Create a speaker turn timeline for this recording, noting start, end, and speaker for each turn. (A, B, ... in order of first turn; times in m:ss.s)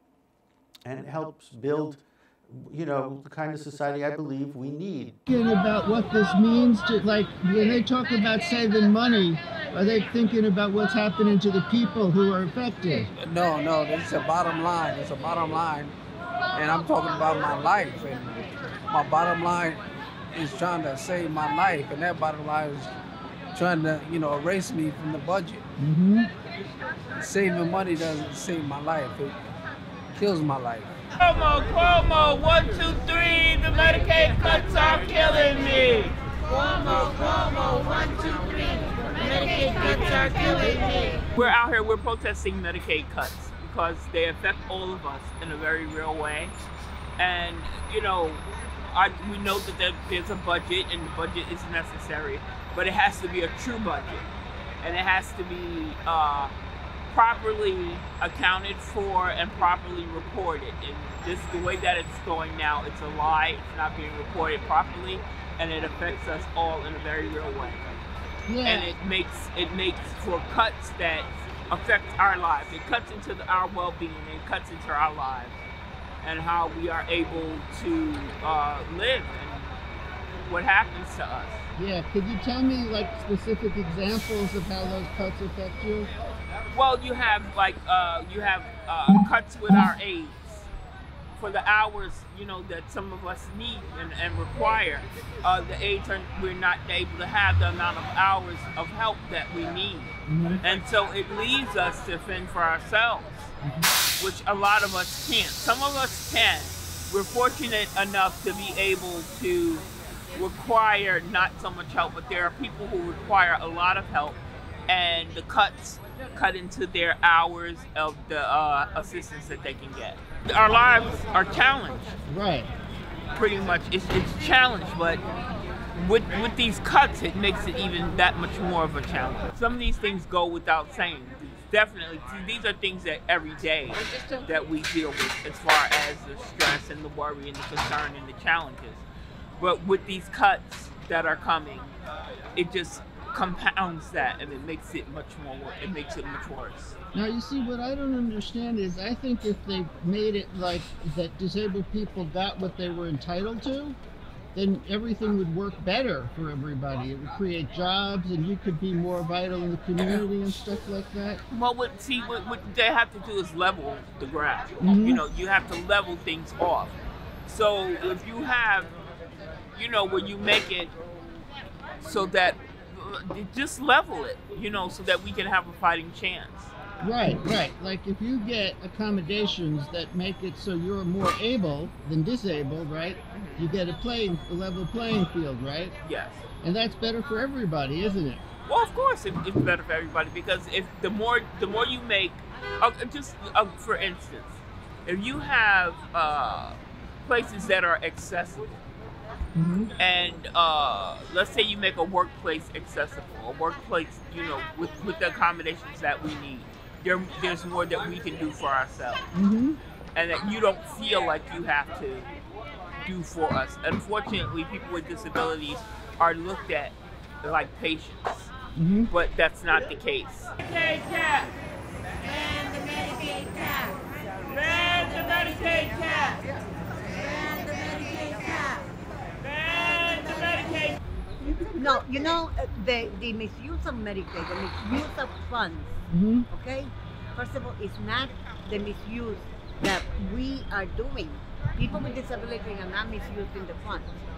0:00.8-0:05.2 A
0:05.3-0:13.1 B
0:13.2-0:15.9 C
0:16.5-0:19.8 C
0:20.3-0:22.9 C
0:23.5-0:25.7 C
0:25.8-0:26.3 B
0:27.2-0:29.4 C
0:30.1-0:31.0 C
0:31.2-0:36.2 D
0:36.5-0:41.3 E
0:41.4-0:46.5 D
0:47.2-0:54.3 D
0:54.8-0:56.5 D
0:57.1-1:07.8 D
1:08.5-1:08.9 B
1:08.6-1:15.6 D
1:16.2-1:19.7 D
1:20.5-1:21.6 D
1:21.8-1:26.1 B
1:26.7-1:30.7 D
1:31.4-1:43.5 D
1:40.3-1:40.6 B
1:43.6-1:43.9 B
1:44.2-1:49.8 D
1:50.4-2:02.1 D
2:02.3-2:02.7 B
2:03.4-2:05.2 D
2:06.0-2:19.0 D
2:19.6-2:21.9 D
2:22.6-2:27.0 D
2:27.1-2:34.0 B
2:34.6-2:41.4 B
2:40.0-2:40.3 D
2:41.5-2:48.9 D
2:44.8-2:45.2 B
2:49.7-2:50.9 D
2:52.0-2:56.7 D
2:57.0-3:05.9 B
3:03.3-3:03.7 D
3:06.0-3:06.4 D
3:06.6-3:08.4 B
3:08.7-3:18.7 D
3:19.6-3:19.9 B
3:20.0-3:29.2 D
3:29.3-3:29.8 B
3:30.2-3:32.3 D
3:33.1-3:38.5 D
3:38.8-3:39.1 B
3:39.1-3:41.5 D
3:42.9-3:43.2 D
3:44.5-3:46.4 D
3:47.8-3:48.5 D
3:49.4-3:51.0 D
3:51.7-3:56.0 F
3:56.1-3:56.5 B
3:56.5-4:04.1 F